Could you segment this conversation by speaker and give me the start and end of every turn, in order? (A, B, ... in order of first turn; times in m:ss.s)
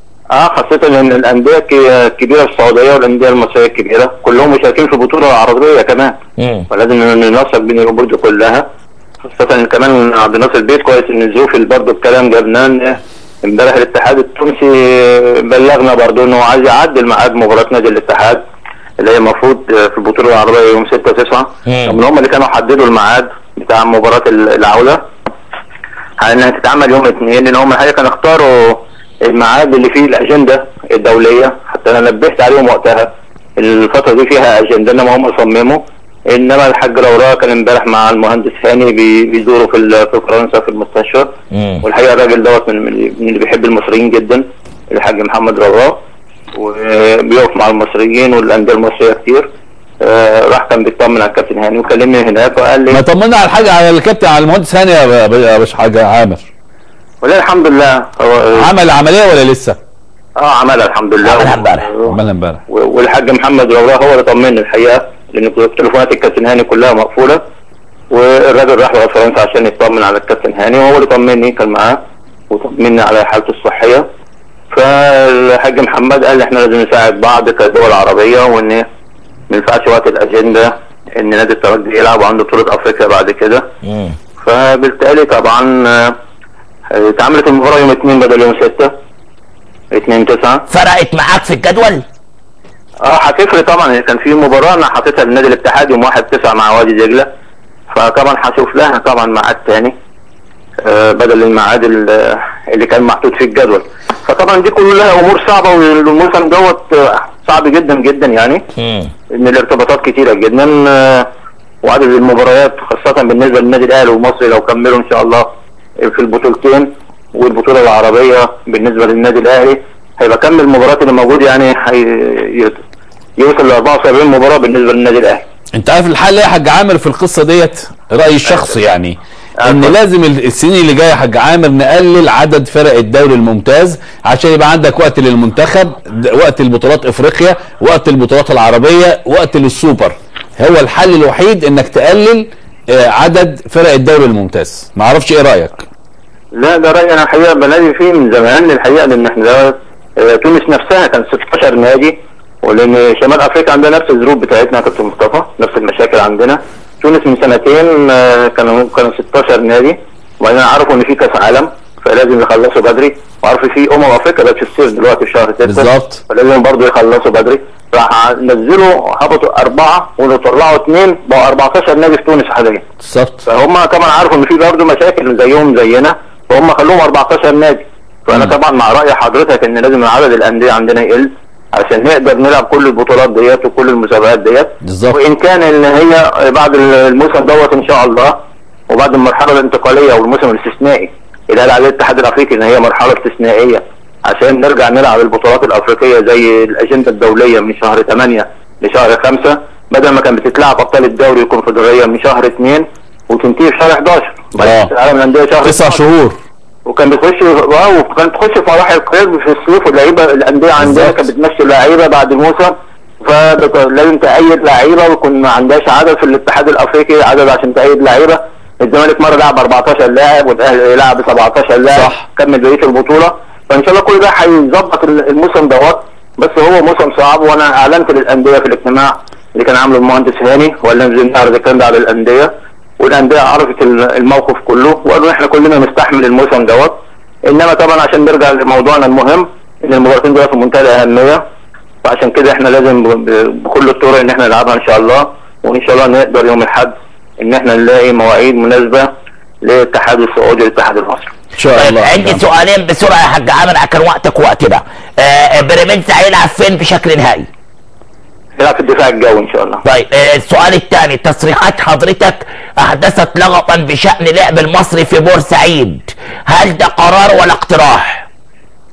0:00.3-0:06.2 A
0:06.4-0:06.7 B
0:06.7-0:08.6 A
0:09.2-0:18.4 A
0:19.0-0:25.0 A
0:21.7-0:22.0 B
0:26.2-0:41.3 A
0:41.5-0:41.8 B
0:41.8-0:46.0 A
0:46.5-0:49.5 A
0:50.0-0:53.0 A
0:52.9-0:56.5 C
0:57.2-0:58.7 A
0:58.5-0:59.8 C
1:00.4-1:02.2 A
1:01.2-1:01.9 B
1:02.0-1:02.6 C
1:02.7-1:07.4 A
1:08.1-1:12.0 A
1:12.5-1:14.0 A
1:14.7-1:18.8 A
1:19.5-1:23.6 A
1:24.4-1:26.2 A
1:26.9-1:28.9 A
1:29.9-1:30.6 A
1:30.7-1:32.0 B
1:33.0-1:37.3 A
1:37.9-1:39.9 A
1:40.8-1:48.7 A
1:48.8-1:49.1 B
1:49.3-1:51.3 A
1:51.8-1:55.5 A
1:56.0-2:02.8 A
2:03.4-2:05.4 A
2:05.7-2:25.8 C
2:09.6-2:10.0 A
2:26.5-2:52.8 A
2:45.6-2:46.2 C
2:53.0-2:53.4 C
2:53.4-3:08.4 A
3:04.8-3:05.2 C
3:08.9-3:26.0 A
3:24.6-3:24.9 C
3:25.6-3:26.4 C
3:26.8-4:01.4 A
3:30.8-3:31.2 C
3:41.9-3:42.2 C
4:02.0-4:09.1 A
4:09.6-4:11.3 A
4:11.5-4:12.4 C
4:11.8-4:17.5 B
4:18.6-4:19.8 A
4:19.8-4:28.2 B